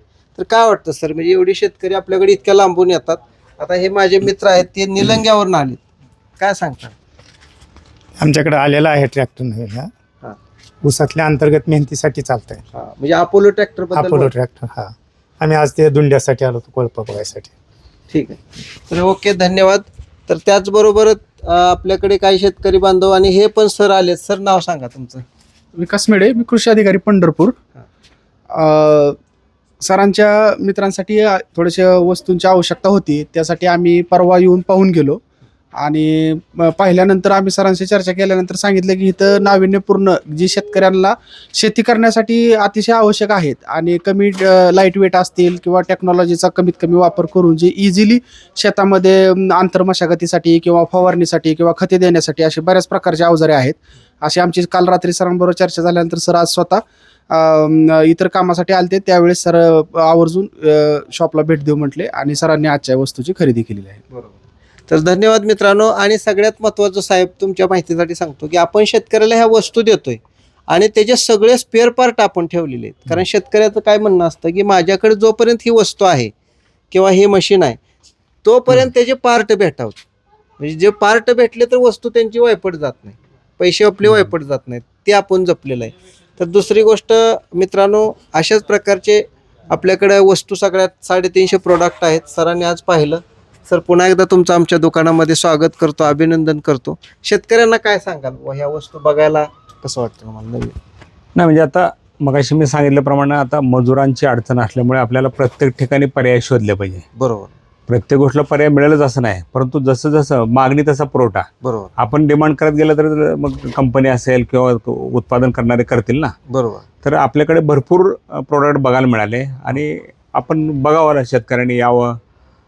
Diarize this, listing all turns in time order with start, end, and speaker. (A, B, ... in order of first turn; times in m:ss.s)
0:00.4-0:05.8 A
0:06.4-0:06.9 A
0:08.2-0:09.9 B
0:10.8-0:12.6 B
0:12.7-0:14.3 A
0:13.9-0:17.5 B
0:18.1-0:25.2 A
0:25.8-0:27.6 C
0:28.5-0:29.2 C
0:29.8-0:35.2 C
0:35.8-1:04.0 C
1:04.9-1:16.3 A
1:16.9-1:17.8 A
1:18.4-1:20.0 A
1:20.6-1:40.7 A
1:24.0-1:24.3 D
1:41.4-1:47.0 D
1:47.2-1:47.5 A
1:47.9-1:51.4 D
1:51.6-1:51.9 A
1:52.0-1:56.3 D
1:56.5-1:56.8 A
1:57.0-2:02.2 D